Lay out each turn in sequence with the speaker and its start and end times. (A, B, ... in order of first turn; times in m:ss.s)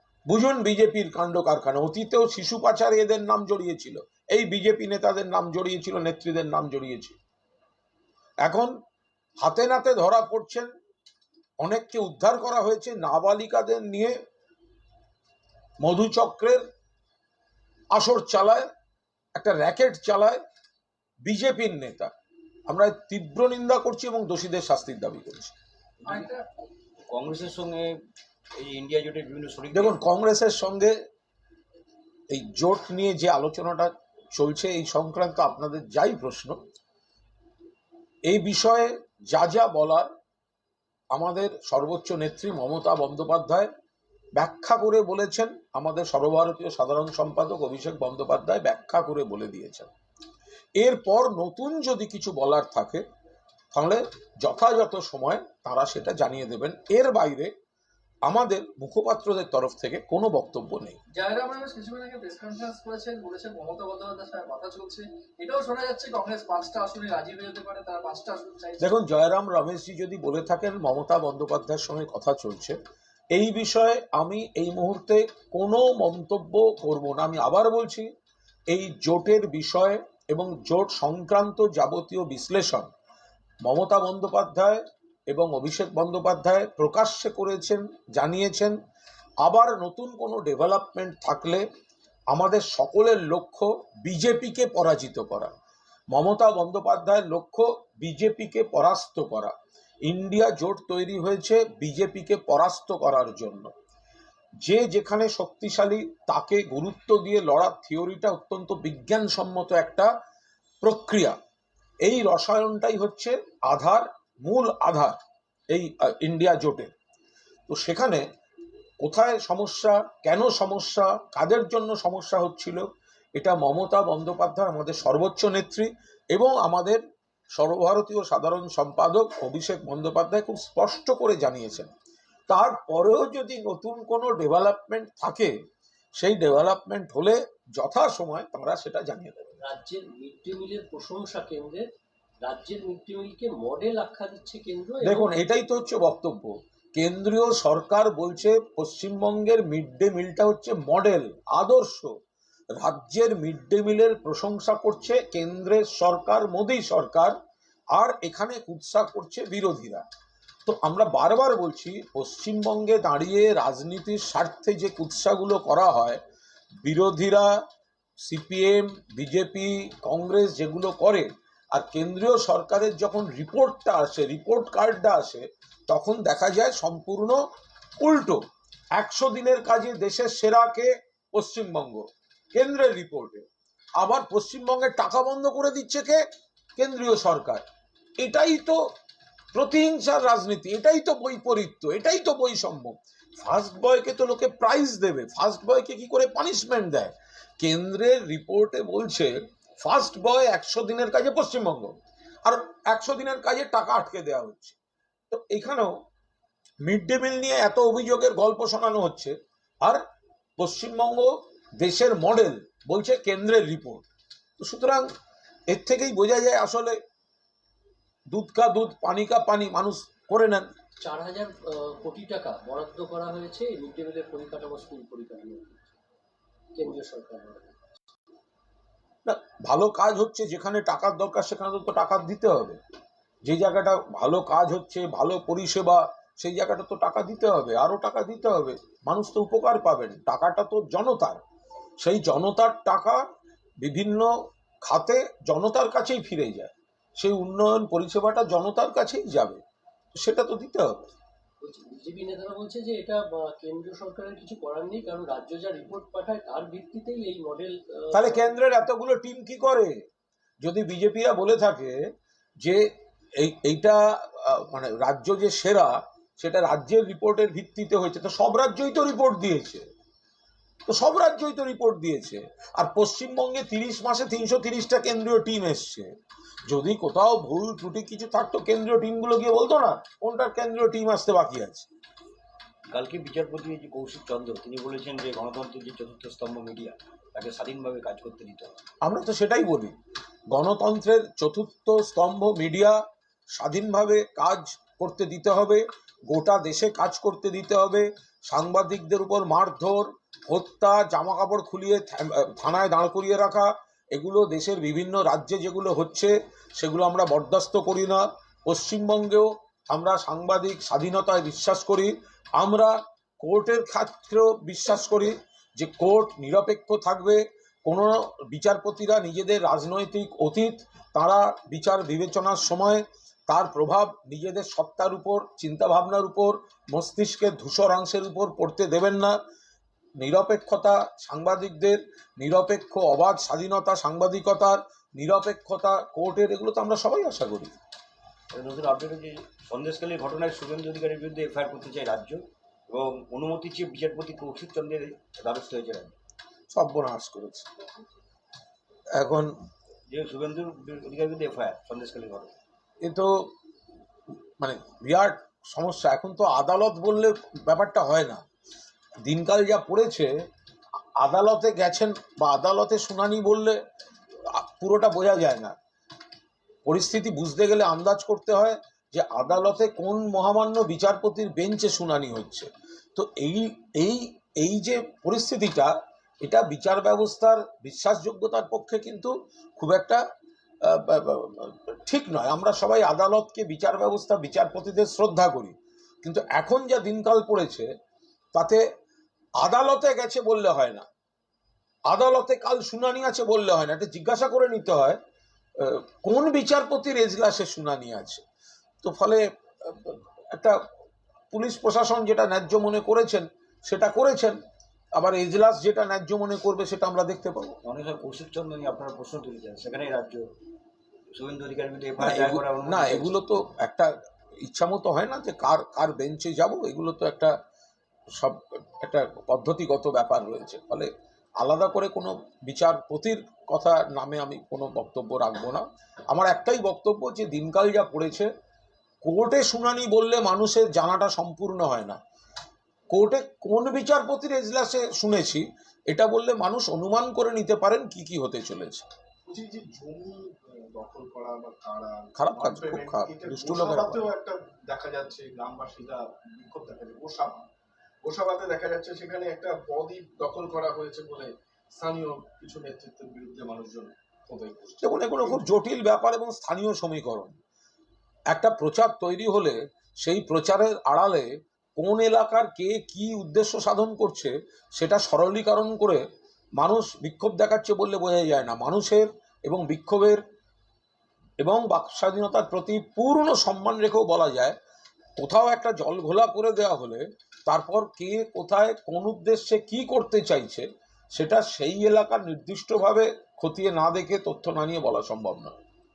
0:00.3-0:07.2 A
0:08.4-0:08.7 A
0:09.4-0:10.7 A
0:11.6-0:14.1 A
0:15.8-0:16.6 A
0:17.9-0:18.7 A
0:19.3-0:20.4 A
0:21.2-0:22.1 A
0:22.7-0:25.5 A
0:26.0-0:26.4 B
0:27.1-0:28.0 C
0:28.6-0:30.0 C
0:29.7-0:30.9 A
0:32.3-0:36.6 A
0:38.2-0:40.1 A
0:41.1-0:43.7 A
0:44.4-0:49.9 A
0:50.8-0:53.0 A
0:53.7-0:57.5 A
0:58.2-1:01.0 A
1:01.1-1:08.9 B
1:08.8-1:12.8 A
1:13.3-1:18.1 A
1:18.7-1:22.9 A
1:23.6-1:28.8 A
1:29.4-1:31.6 A
1:32.3-1:35.5 A
1:36.1-1:43.7 A
1:44.6-1:50.1 A
1:50.8-1:51.4 A
1:52.0-1:55.2 A
1:55.7-1:56.9 A
1:57.7-1:58.2 A
1:59.0-2:07.0 A
2:07.5-2:11.9 A
2:12.5-2:15.5 A
2:16.2-2:19.6 A
2:19.6-2:21.9 D
2:22.4-2:25.3 D
2:25.0-2:32.1 A
2:32.7-2:37.3 A
2:37.9-2:40.1 A
2:40.6-2:46.2 A
2:46.8-2:47.5 A
2:48.2-2:57.4 A
2:58.0-2:58.4 A
2:59.0-3:03.5 A
3:04.0-3:06.2 A
3:06.8-3:07.6 A
3:08.2-3:08.8 A
3:09.5-3:24.8 A
3:25.3-3:26.0 A
3:26.8-3:30.0 A
3:30.6-3:34.0 A
3:34.6-3:35.1 A
3:35.7-3:37.0 A
3:38.3-3:40.7 A
3:41.0-3:45.9 D
3:46.8-3:47.7 D
3:49.2-3:52.8 A
3:53.4-4:01.4 A
4:02.0-4:03.2 A
4:03.8-4:04.3 A
4:04.8-4:09.6 A
4:10.1-4:10.9 A
4:11.6-4:18.5 D
4:18.1-4:20.0 A
4:20.6-4:22.0 A
4:22.6-4:29.8 A
4:30.9-4:36.1 A
4:36.6-4:41.9 A
4:42.9-4:48.8 C
4:49.0-4:49.9 A
4:50.5-4:53.0 A
4:53.5-5:29.4 A
5:30.2-5:37.7 A
5:38.5-5:46.1 C
5:46.7-5:47.7 A
5:49.1-5:49.5 A
5:50.1-5:52.5 C
5:53.0-5:53.5 A
5:54.6-5:58.4 A
5:59.2-6:00.3 A
6:01.2-6:03.8 A
6:04.4-6:05.7 A
6:06.8-6:20.2 A
6:20.8-6:27.9 A
6:28.5-6:28.8 A
6:29.6-6:31.0 A
6:32.1-6:35.2 A
6:35.8-6:38.4 A
6:39.0-6:40.8 A
6:41.5-6:44.6 A
6:45.1-6:47.8 A
6:47.8-6:50.5 C
6:51.3-6:53.3 C
6:52.2-6:57.5 A
6:58.3-7:08.5 A
7:09.2-7:12.2 A
7:13.1-7:19.0 A
7:19.5-7:27.6 E
7:22.4-7:24.3 A
7:28.2-7:35.6 E
7:35.0-7:37.6 A
7:38.5-7:46.2 A
7:46.8-7:50.4 A
7:51.6-7:54.8 A
7:55.4-8:05.8 A